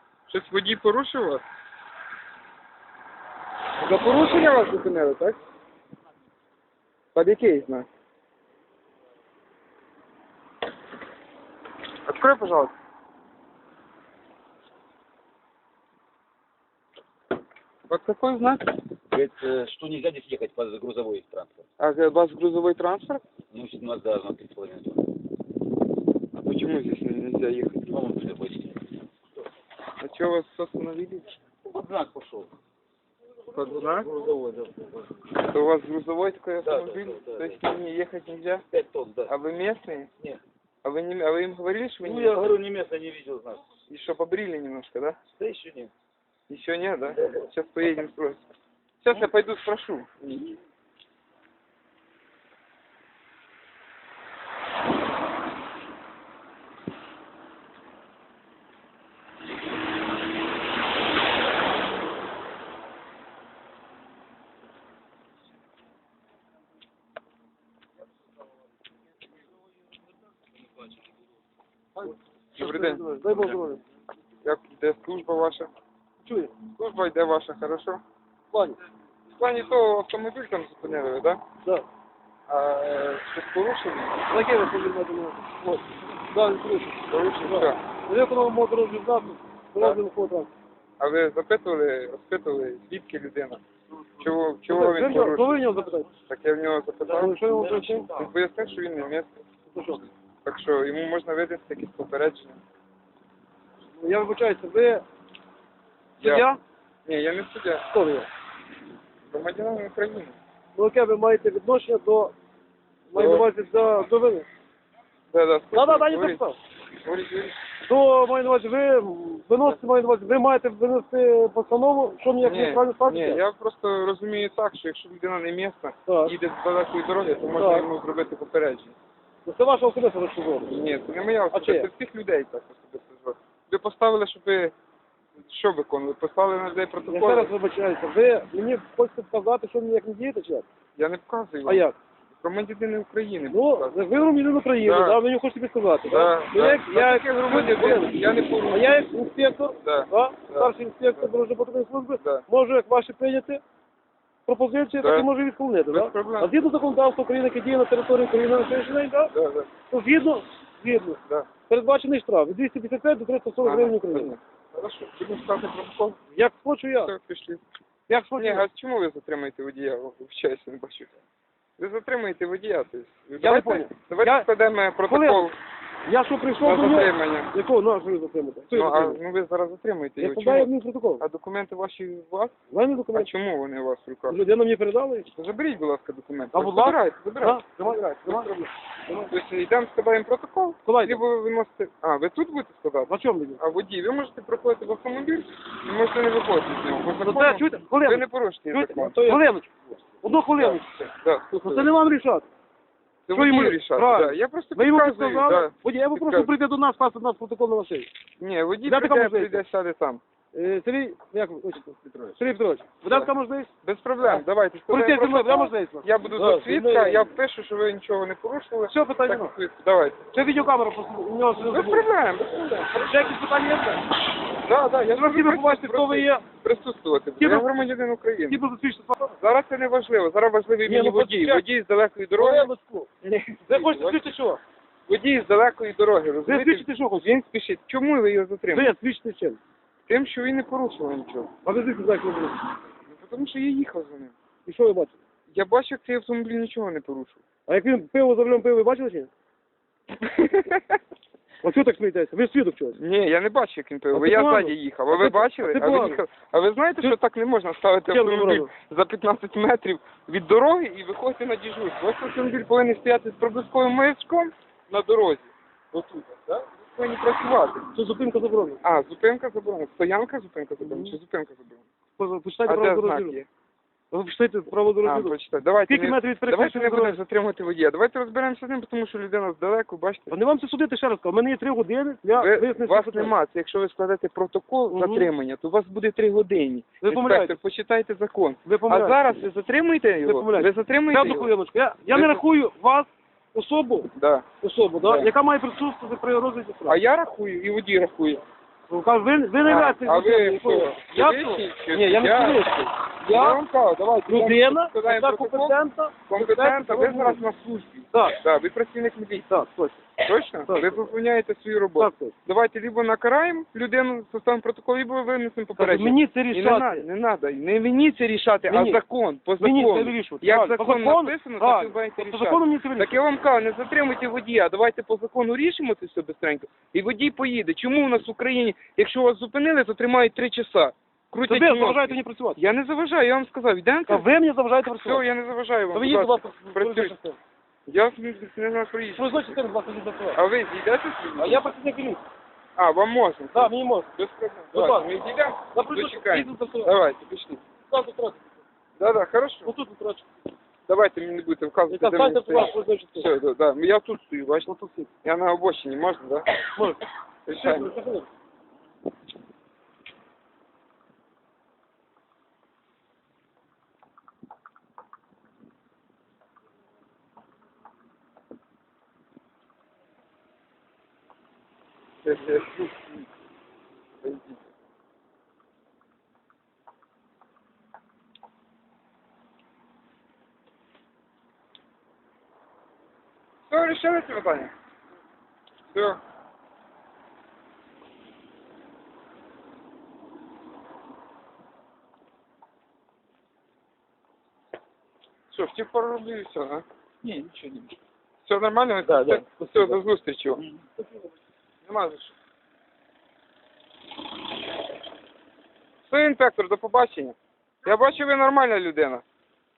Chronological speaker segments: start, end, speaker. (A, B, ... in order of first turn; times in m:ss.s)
0:00.3-0:01.4 A
0:03.8-0:05.4 A
0:07.2-0:07.9 A
0:12.1-0:12.7 A
0:17.9-0:18.8 A
0:19.1-0:21.6 B
0:21.8-0:23.2 A
0:23.5-0:25.1 B
0:26.4-0:28.0 A
0:27.9-0:28.9 B
0:30.0-0:31.4 A
0:31.6-0:32.5 B
0:33.6-0:34.1 A
0:33.6-0:35.1 B
0:35.4-0:38.7 A
0:36.6-0:37.6 B
0:38.7-0:39.3 B
0:39.3-0:40.1 A
0:40.8-0:42.4 A
0:42.0-0:43.6 B
0:43.9-0:45.2 A
0:45.3-0:45.9 B
0:46.5-0:48.4 A
0:49.0-0:50.6 A
1:12.0-1:13.8 C
1:12.6-1:13.0 A
1:14.4-1:15.7 A
1:16.2-1:16.5 C
1:16.7-1:18.0 A
1:18.5-1:18.8 C
1:19.4-1:21.4 A
1:22.5-1:24.3 A
1:24.3-1:25.5 C
1:26.3-1:30.5 C
1:27.1-1:27.8 A
1:31.0-1:33.6 A
1:34.2-1:35.6 A
1:34.7-1:36.1 C
1:36.3-1:39.4 A
1:37.1-1:38.2 C
1:39.7-1:40.1 C
1:40.4-1:42.6 A
1:44.0-1:45.0 C
1:46.2-1:46.5 A
1:46.2-1:46.6 C
1:47.1-1:47.8 A
1:47.9-1:48.3 C
1:49.3-1:50.4 A
1:50.8-1:52.3 C
1:53.1-1:54.5 C
1:53.2-1:53.5 A
1:55.3-1:56.4 A
1:55.7-1:56.6 C
1:57.0-1:57.6 A
1:57.8-2:03.4 C
2:02.4-2:09.0 A
2:06.1-2:06.4 C
2:07.5-2:07.9 C
2:09.4-2:10.8 C
2:10.7-2:14.8 A
2:11.5-2:11.9 C
2:15.4-2:17.5 A
2:17.1-2:20.7 C
2:21.0-2:21.9 A
2:21.7-2:22.0 C
2:22.4-2:24.2 A
2:23.5-2:33.6 C
2:24.8-2:25.2 A
2:26.0-2:29.1 A
2:29.8-2:31.3 A
2:32.2-2:32.4 A
2:34.5-2:39.3 C
2:35.0-2:35.3 A
2:35.9-2:36.6 A
2:39.3-2:39.7 A
2:39.9-2:44.3 C
2:43.6-2:46.2 A
2:46.3-2:47.1 C
2:47.0-2:47.6 A
2:48.1-2:48.7 C
2:48.4-2:51.2 A
2:51.8-2:55.6 A
2:53.4-2:54.5 C
2:55.1-2:55.5 C
2:56.1-2:59.2 C
2:56.6-2:57.5 A
2:58.7-3:02.6 A
3:00.2-3:01.2 C
3:02.7-3:03.3 C
3:03.1-3:04.4 A
3:04.3-3:05.3 C
3:05.3-3:08.7 A
3:06.5-3:09.3 C
3:09.3-3:19.5 A
3:10.9-3:11.2 C
3:13.1-3:13.6 C
3:17.2-3:20.9 C
3:20.6-3:21.9 A
3:21.5-3:22.4 C
3:23.3-3:26.5 A
3:23.3-3:28.1 C
3:28.4-3:30.2 A
3:28.8-3:29.6 C
3:30.5-3:33.7 C
3:32.0-3:32.4 A
3:33.8-3:40.3 A
3:34.2-3:37.3 C
3:38.9-3:39.5 C
3:40.3-3:42.1 C
3:41.6-3:43.4 A
3:42.9-3:44.0 C
3:44.6-3:48.6 A
3:45.1-3:46.4 C
3:47.4-3:47.7 C
3:48.5-3:49.4 C
3:49.4-3:52.7 A
3:50.9-3:51.6 C
3:52.4-3:53.1 C
3:53.2-3:54.3 A
3:53.7-3:54.6 C
3:55.1-3:58.9 A
3:56.5-3:57.4 C
3:58.7-3:59.6 C
4:00.1-4:01.5 A
4:01.6-4:02.6 C
4:03.1-4:04.4 A
4:04.7-4:05.2 C
4:05.5-4:07.4 A
4:07.7-4:09.3 C
4:10.2-4:11.0 A
4:11.6-4:13.0 C
4:13.0-4:25.5 A
4:14.1-4:16.2 C
4:18.1-4:18.7 C
4:25.9-4:26.7 C
4:26.8-4:27.9 A
4:27.9-4:28.8 C
4:28.8-4:31.9 A
4:30.8-4:31.2 C
4:32.2-4:33.4 C
4:32.7-4:33.5 A
4:34.1-4:35.4 C
4:35.0-4:40.4 A
4:35.9-4:37.2 C
4:40.3-4:43.3 C
4:42.4-4:51.5 A
4:44.9-4:45.3 C
4:47.0-4:47.6 C
4:48.6-4:49.2 C
4:50.2-4:57.0 C
4:52.1-4:52.4 A
4:54.2-4:54.5 A
4:55.0-4:55.3 A
4:56.9-4:58.5 A
4:58.9-5:03.6 C
4:59.6-5:09.5 A
5:04.3-5:07.4 C
5:08.1-5:08.4 C
5:09.5-5:10.1 C
5:10.2-5:34.3 A
5:10.7-5:11.1 C
5:12.0-5:12.4 C
5:15.8-5:17.1 C
5:18.7-5:19.0 C
5:19.6-5:23.2 C
5:31.5-5:32.6 C
5:34.1-5:35.2 C
5:35.0-5:37.2 A
5:35.9-5:37.4 C
5:37.9-5:39.6 A
5:39.2-5:40.4 C
5:40.4-5:41.7 A
5:41.4-5:42.2 C
5:42.8-5:47.6 A
5:43.5-5:44.1 C
5:44.7-5:45.1 C
5:45.7-5:47.0 C
5:47.9-5:48.6 C
5:49.0-5:49.7 A
5:49.6-5:50.3 C
5:50.9-5:54.7 A
5:51.9-5:53.3 C
5:54.7-5:55.1 C
5:55.2-5:56.6 A
5:56.8-5:57.0 C
5:57.5-5:57.9 A
5:57.6-5:58.3 C
6:12.2-6:13.0 A
6:14.2-6:14.6 A
6:23.7-6:24.7 A
6:25.9-6:26.2 A
6:35.5-6:36.8 A
6:37.2-6:37.9 B
6:38.4-6:40.6 A
6:39.0-6:40.0 B
6:41.8-6:42.3 A
6:46.1-6:49.2 A